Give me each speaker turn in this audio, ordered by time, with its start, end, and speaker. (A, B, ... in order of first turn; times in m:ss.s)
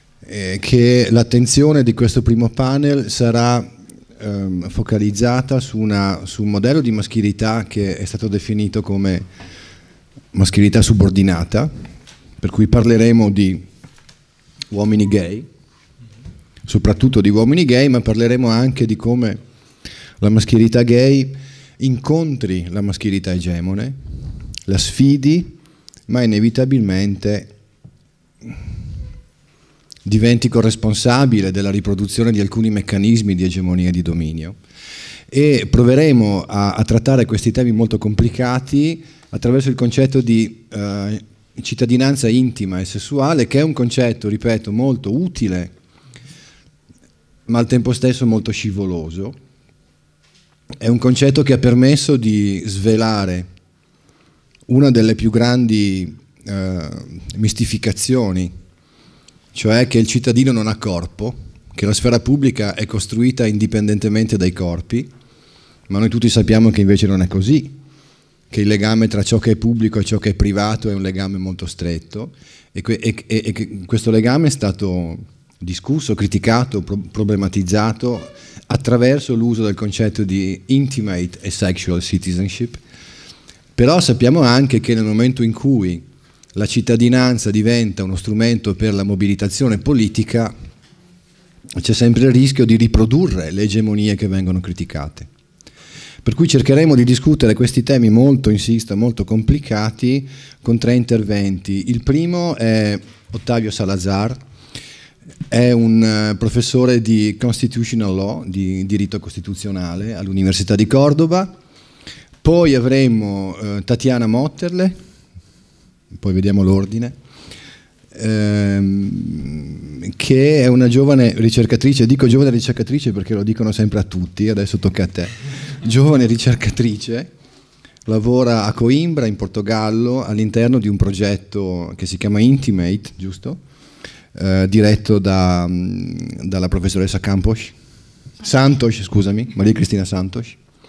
0:00.2-0:09.2 A
0:10.3-0:11.7 A
0:12.4-0:13.6 A
0:14.7-0:15.5 A
0:16.6-0:19.4 A
0:20.2-0:24.0 A
0:24.6-0:25.5 A
0:26.1-0:27.5 A
0:30.0-0:34.6 A
0:35.3-0:45.7 A
0:47.5-0:49.4 A
0:50.8-0:53.5 A
0:54.7-0:58.5 A
0:59.5-1:05.1 A
1:05.9-1:07.7 A
1:08.5-1:22.8 A
1:23.8-1:26.0 A
1:26.5-1:30.5 A
1:31.8-1:35.3 A
1:36.2-1:44.4 A
1:45.5-1:51.5 A
1:52.4-1:54.9 A
1:56.1-1:57.1 A
1:58.1-2:07.3 A
2:08.0-2:13.6 A
2:14.3-2:17.7 A
2:18.4-2:20.6 A